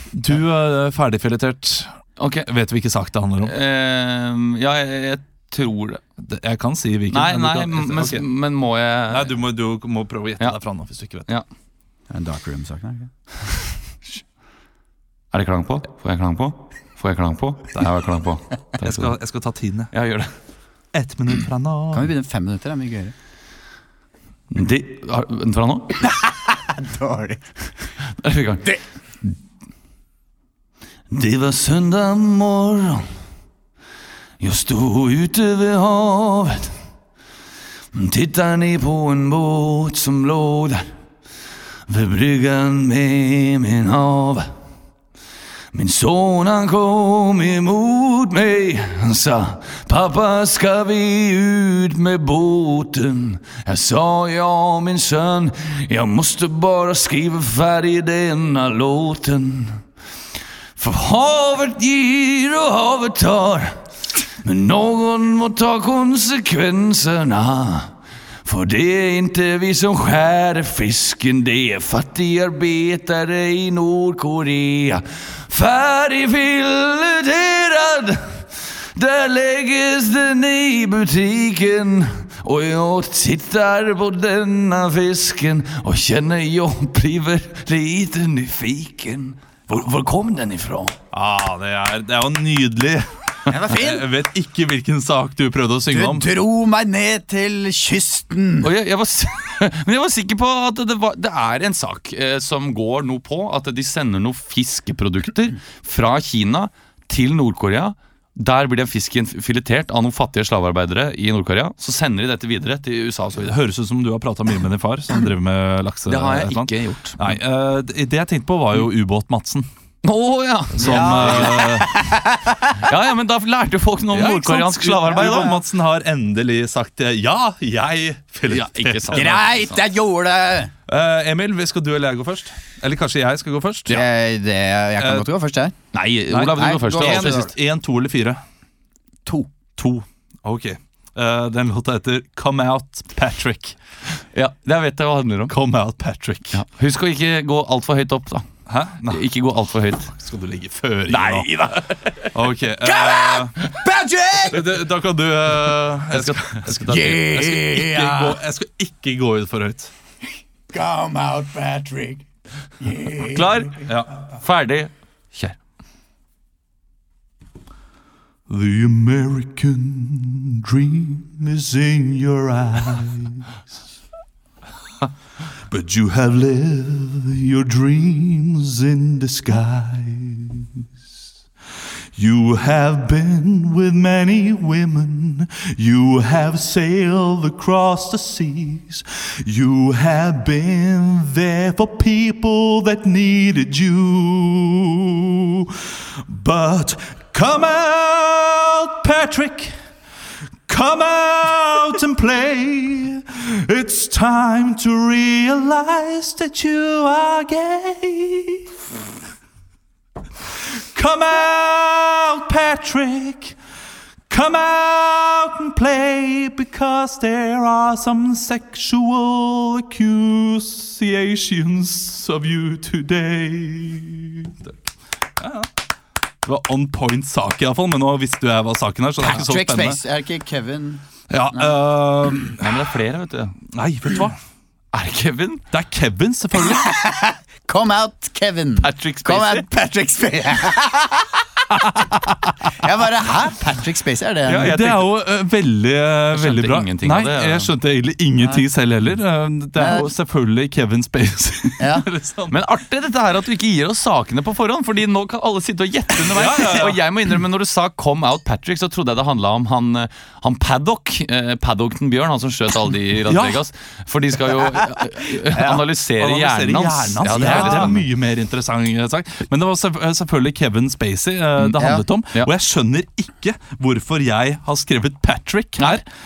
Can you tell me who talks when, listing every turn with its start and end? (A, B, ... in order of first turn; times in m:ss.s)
0:00.1-0:03.5 A
0:02.2-0:02.5 B
0:03.4-0:06.0 B
0:06.2-0:08.2 A
0:07.1-0:09.3 B
0:09.1-0:11.3 A
0:12.1-0:13.1 C
0:15.3-0:19.1 B
0:18.8-0:19.9 A
0:19.9-0:20.3 B
0:20.9-0:22.1 A
0:21.9-0:23.1 C
0:24.5-0:26.0 B
0:26.0-0:27.4 C
0:28.0-0:28.8 B
0:31.1-0:33.1 B
0:34.4-0:36.8 B
0:37.9-0:40.9 B
0:41.9-0:44.5 B
0:45.7-0:59.8 B
1:00.8-1:03.8 B
1:04.4-1:31.0 B
1:31.1-1:36.3 A
1:33.5-1:34.1 C
1:35.9-1:38.7 C
1:38.6-1:53.5 B
1:53.4-1:59.7 A
1:56.1-1:57.3 B
2:00.0-2:01.7 B
2:00.8-2:02.0 A
2:00.8-2:02.8 C
2:02.8-2:05.6 B
2:04.1-2:09.4 A
2:05.2-2:05.5 C
2:08.5-2:09.8 B
2:09.1-2:10.7 C
2:10.9-2:14.0 A
2:13.9-2:15.7 C
2:15.0-2:15.3 A
2:15.9-2:17.5 B
2:16.3-2:18.4 A
2:16.5-2:17.5 C
2:19.2-2:19.5 C
2:19.8-2:23.8 A
2:24.3-2:25.5 B
2:25.5-2:26.6 A
2:26.5-2:28.4 B
2:28.7-2:29.3 A
2:29.1-2:30.1 B
2:30.1-2:31.7 A
2:31.1-2:32.3 B
2:32.3-2:33.6 A
2:32.8-2:34.8 C
2:34.5-2:39.9 A
2:35.9-2:37.0 B
2:36.8-2:38.4 C
2:40.7-2:42.2 C
2:42.8-2:43.8 C
2:43.3-2:45.6 B
2:43.8-2:44.1 A
2:48.5-2:53.5 A
2:55.7-3:00.9 A
3:02.2-3:19.7 A
3:20.7-3:28.7 A
3:30.8-3:33.6 A
3:34.3-3:44.8 A
3:45.4-3:45.7 A
3:46.4-3:50.0 A
3:49.2-3:51.7 C
3:51.3-3:52.9 A
3:52.6-3:53.5 B
3:53.7-3:54.4 A
3:54.9-3:55.6 B
3:55.7-3:56.9 A
3:56.6-4:04.7 C
3:58.8-3:59.6 B
4:04.4-4:05.1 B
4:04.5-4:12.6 A
4:06.3-4:07.7 B
4:09.8-4:10.1 C
4:11.8-4:12.0 C
4:12.5-4:28.0 B
4:16.3-4:17.0 A
4:23.3-4:23.6 A
4:26.2-4:36.0 A
4:27.4-4:27.9 C
4:31.7-4:32.0 C